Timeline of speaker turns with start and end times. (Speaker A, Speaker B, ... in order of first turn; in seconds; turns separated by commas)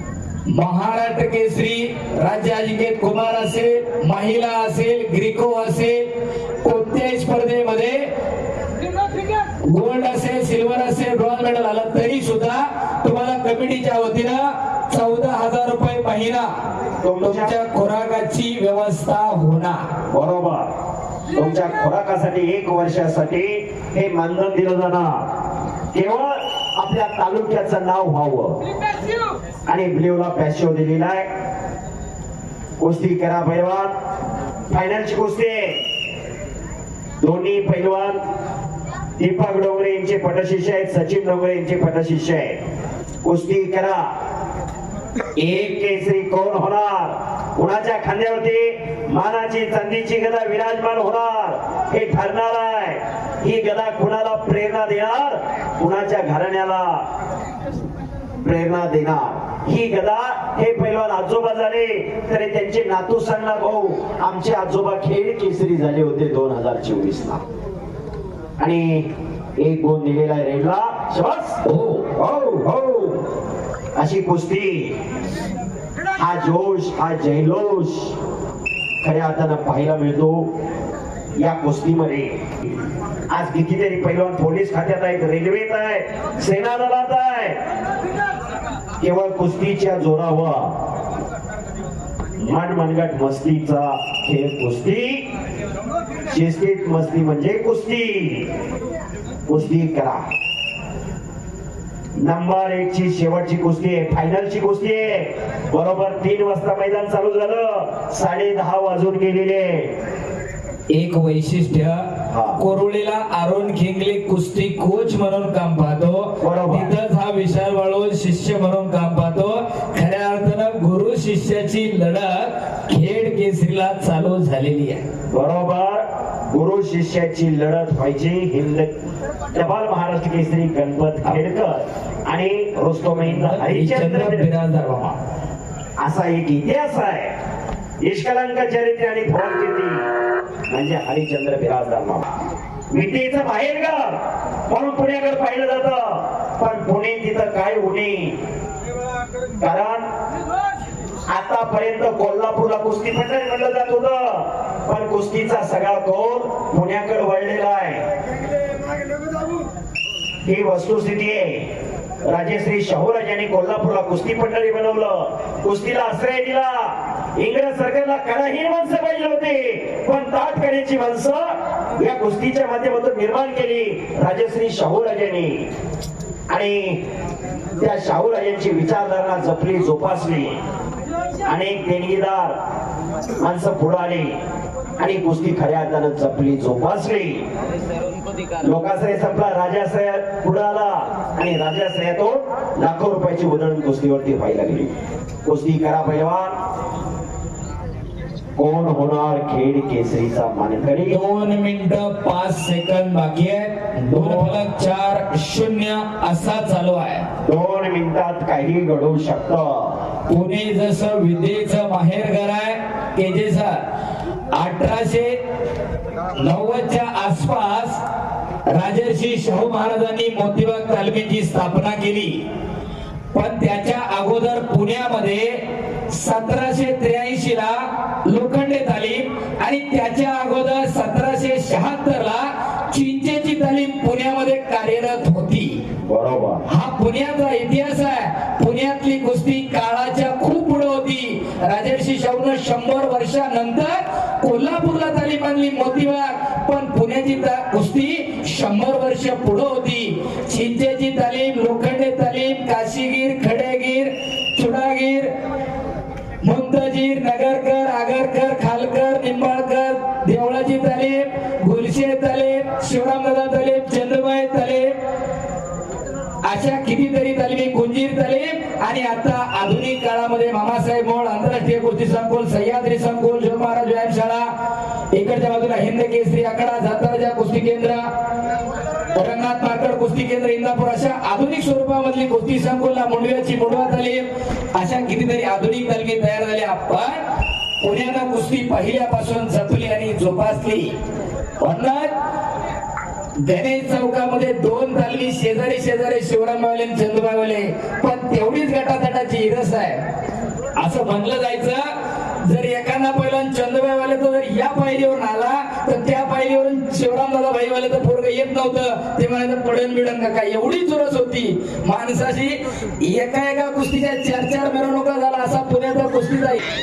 Speaker A: 0.5-6.0, Speaker A: 6.6-8.0, Speaker A: 9.7-16.4, Speaker B: 17.0-17.5, Speaker A: 17.2-19.8, Speaker B: 20.1-20.7, Speaker B: 21.3-25.2, Speaker B: 25.9-28.6, Speaker B: 29.7-31.3, Speaker B: 32.8-33.9, Speaker B: 34.7-35.8, Speaker B: 37.2-38.2, Speaker B: 39.2-42.6, Speaker B: 43.2-44.0, Speaker B: 45.4-57.0, Speaker B: 58.4-67.4, Speaker B: 68.6-69.1, Speaker B: 69.6-71.6, Speaker A: 71.6-72.1, Speaker B: 72.1-73.2, Speaker B: 74.0-74.9, Speaker B: 76.2-78.2, Speaker B: 79.0-80.5, Speaker B: 81.3-82.4, Speaker B: 83.3-87.6, Speaker B: 89.0-90.7, Speaker B: 92.4-95.2, Speaker B: 96.3-98.5, Speaker B: 99.5-100.2, Speaker B: 102.2-109.9, Speaker A: 110.9-112.0, Speaker B: 112.3-112.6, Speaker A: 112.6-125.0, Speaker B: 116.4-116.9, Speaker B: 125.3-128.9, Speaker B: 129.5-134.5, Speaker A: 133.4-135.2, Speaker B: 136.0-137.3, Speaker B: 138.0-140.0, Speaker B: 140.7-142.2, Speaker B: 142.9-144.2, Speaker B: 144.7-148.4, Speaker B: 149.6-150.1, Speaker B: 151.3-158.0, Speaker B: 160.4-161.7, Speaker B: 162.2-171.4, Speaker B: 172.0-175.7, Speaker B: 176.5-177.0, Speaker B: 177.8-180.6, Speaker B: 181.4-182.6, Speaker B: 183.4-184.4, Speaker B: 185.0-187.4, Speaker B: 188.6-194.9, Speaker B: 195.4-196.5, Speaker B: 198.6-201.2, Speaker A: 201.1-207.2, Speaker B: 204.1-204.6, Speaker B: 207.4-210.0, Speaker A: 210.3-213.8, Speaker A: 214.5-215.3, Speaker A: 216.3-218.0, Speaker A: 218.7-222.4, Speaker A: 223.3-225.6, Speaker A: 226.1-235.8, Speaker B: 236.0-236.6, Speaker A: 236.7-243.9, Speaker A: 244.4-255.3, Speaker A: 256.4-264.9, Speaker A: 266.4-274.5, Speaker A: 275.1-278.1, Speaker A: 279.1-287.2, Speaker A: 287.8-290.9, Speaker A: 291.6-292.1, Speaker A: 293.4-300.0, Speaker A: 300.8-301.9, Speaker A: 302.4-316.6